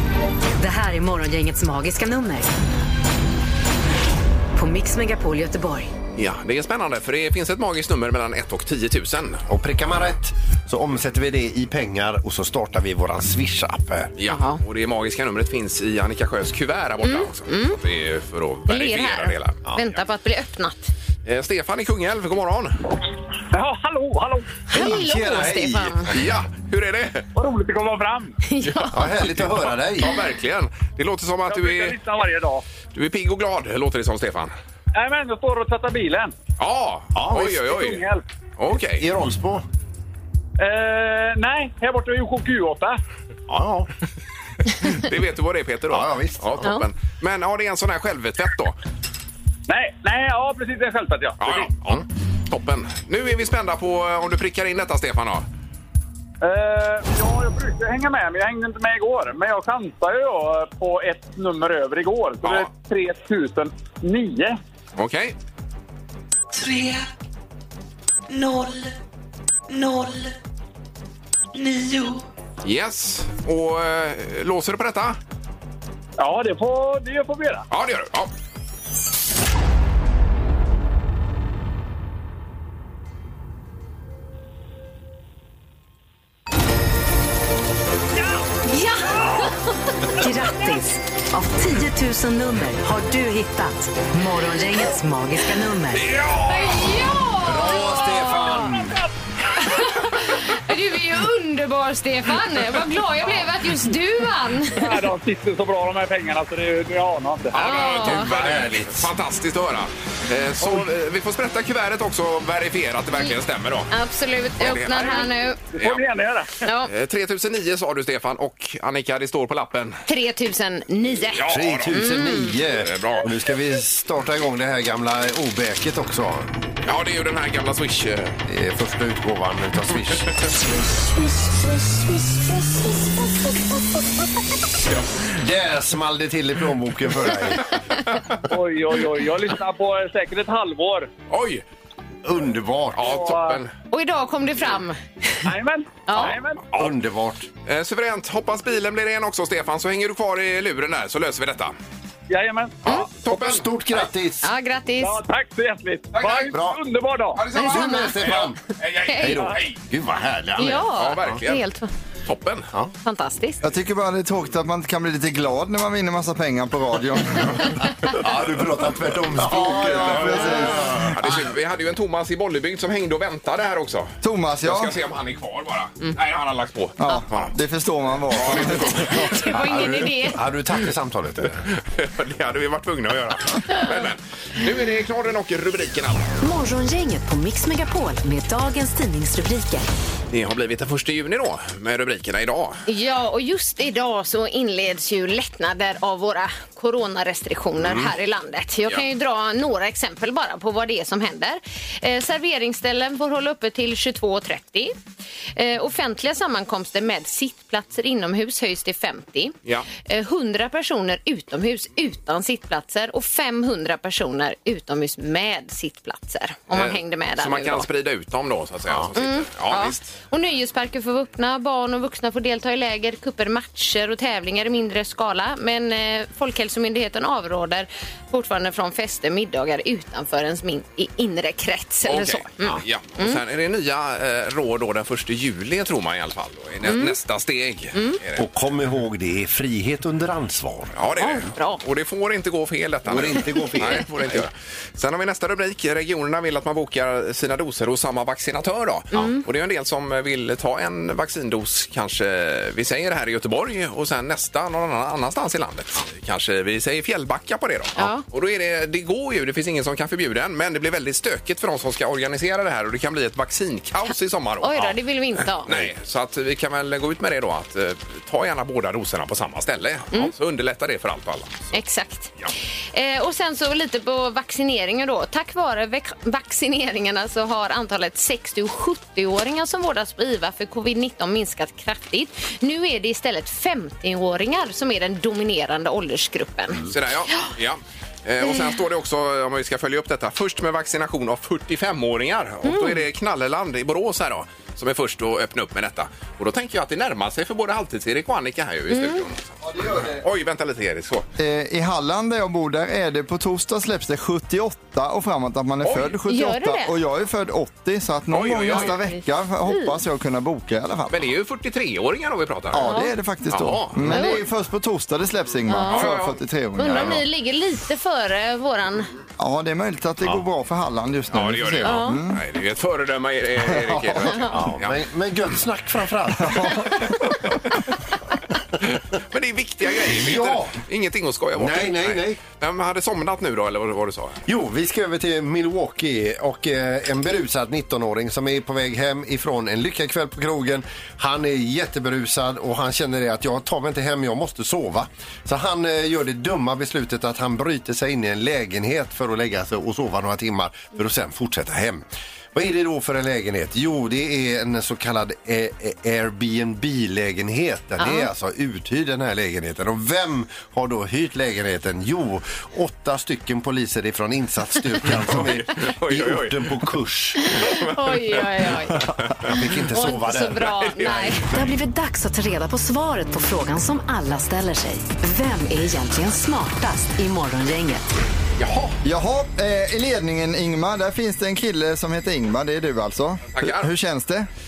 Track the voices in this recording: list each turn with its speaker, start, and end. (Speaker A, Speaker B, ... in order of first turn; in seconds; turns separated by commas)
Speaker A: 0.6-2.5, Speaker A: 4.5-5.9, Speaker B: 6.2-9.5, Speaker C: 9.5-14.1, Speaker B: 14.2-19.6, Speaker D: 14.2-14.6, Speaker D: 17.0-17.8, Speaker D: 18.7-20.9, Speaker B: 21.2-22.9, Speaker E: 23.5-24.6, Speaker D: 24.7-26.1, Speaker C: 24.7-26.2, Speaker B: 26.1-27.3, Speaker E: 27.3-28.4, Speaker D: 28.4-29.0, Speaker B: 28.7-32.0, Speaker C: 28.9-30.1, Speaker E: 31.5-32.6, Speaker B: 32.9-34.5, Speaker E: 34.9-36.3, Speaker B: 36.6-38.0, Speaker C: 37.1-37.5, Speaker E: 37.3-38.2, Speaker B: 38.6-39.0, Speaker C: 38.9-39.6, Speaker E: 40.6-43.0, Speaker C: 43.5-43.9, Speaker B: 44.7-48.8, Speaker C: 45.9-46.7, Speaker D: 46.6-46.9, Speaker E: 49.7-51.7, Speaker B: 51.4-55.4, Speaker E: 56.4-64.6, Speaker B: 62.4-62.7, Speaker B: 65.0-65.3, Speaker F: 66.5-67.1, Speaker F: 68.3-68.9, Speaker F: 69.7-70.3, Speaker F: 71.5-72.2, Speaker B: 72.6-75.2, Speaker E: 76.2-77.6, Speaker B: 77.7-78.3, Speaker D: 88.6-89.7, Speaker A: 90.1-96.1, Speaker B: 95.9-96.9, Speaker D: 96.4-98.8, Speaker C: 97.4-99.0, Speaker D: 99.5-104.9, Speaker E: 104.7-107.6, Speaker B: 107.5-113.9, Speaker D: 107.5-108.3, Speaker C: 108.0-109.1, Speaker D: 113.9-115.6, Speaker B: 114.6-116.0, Speaker E: 114.9-116.5, Speaker D: 116.6-116.9, Speaker B: 116.8-120.0, Speaker D: 120.1-122.5, Speaker B: 121.3-122.0, Speaker C: 121.5-126.5, Speaker B: 122.7-123.3, Speaker B: 126.8-128.4, Speaker C: 128.5-130.4, Speaker C: 135.4-137.8, Speaker B: 138.1-138.4, Speaker E: 138.5-141.1, Speaker B: 141.3-141.6, Speaker C: 142.2-143.1, Speaker B: 142.9-143.7, Speaker E: 143.1-143.6, Speaker D: 143.9-145.5, Speaker E: 145.4-146.6, Speaker D: 146.1-146.3, Speaker B: 146.1-146.9, Speaker C: 146.7-147.5, Speaker B: 147.7-151.7, Speaker E: 152.3-153.4, Speaker B: 152.8-153.7, Speaker C: 153.3-154.5, Speaker D: 154.4-155.2, Speaker E: 155.0-157.4, Speaker B: 156.1-156.5, Speaker C: 156.5-156.8, Speaker B: 157.3-159.8, Speaker C: 157.5-158.6, Speaker D: 157.5-158.2, Speaker D: 159.1-159.4, Speaker C: 159.2-161.4, Speaker D: 160.6-161.9, Speaker B: 160.9-161.6, Speaker B: 162.2-162.7, Speaker D: 163.0-163.6, Speaker G: 163.6-167.9, Speaker C: 168.0-171.4, Speaker G: 169.3-171.1, Speaker B: 171.1-177.5, Speaker G: 174.2-175.0, Speaker G: 177.0-179.3, Speaker B: 178.3-179.4, Speaker D: 179.0-180.4, Speaker C: 179.5-181.7, Speaker B: 181.7-186.3, Speaker A: 186.4-189.9, Speaker B: 190.3-192.8, Speaker D: 192.9-204.9, Speaker C: 197.8-198.1, Speaker D: 205.6-217.9, Speaker B: 216.7-220.1, Speaker D: 219.1-233.4, Speaker B: 232.1-238.5, Speaker D: 236.8-237.2, Speaker C: 238.4-241.0, Speaker B: 240.9-265.0, Speaker D: 241.2-241.8, Speaker C: 243.1-244.4, Speaker D: 243.7-244.0, Speaker D: 249.1-249.4, Speaker D: 258.0-258.2, Speaker D: 264.6-265.7, Speaker B: 265.6-271.7, Speaker D: 271.7-272.3, Speaker D: 272.9-286.9, Speaker B: 286.8-301.3, Speaker D: 292.6-293.0, Speaker D: 298.9-299.2, Speaker G: 299.6-300.2, Speaker G: 301.4-311.3, Speaker B: 305.8-306.2, Speaker D: 306.3-306.9, Speaker B: 308.3-309.0, Speaker D: 308.7-310.0, Speaker B: 311.1-312.9, Speaker G: 312.7-317.2, Speaker D: 312.8-313.1, Speaker B: 313.5-314.4, Speaker D: 314.1-314.4, Speaker D: 315.7-316.1, Speaker B: 315.9-316.4, Speaker D: 316.8-319.1, Speaker B: 316.9-317.2, Speaker G: 319.4-322.4, Speaker B: 321.3-325.0, Speaker D: 321.8-322.2, Speaker G: 323.6-324.4, Speaker C: 324.5-327.6, Speaker G: 326.5-326.7, Speaker B: 329.2-334.4, Speaker C: 330.0-330.8, Speaker C: 331.6-332.4, Speaker C: 334.4-367.6, Speaker D: 358.0-358.3, Speaker B: 365.1-366.7, Speaker D: 367.4-371.5, Speaker B: 367.6-369.5, Speaker C: 369.1-370.8, Speaker B: 370.7-371.4, Speaker A: 371.5-378.1, Speaker B: 378.6-379.0, Speaker G: 379.0-384.5, Speaker B: 383.5-383.9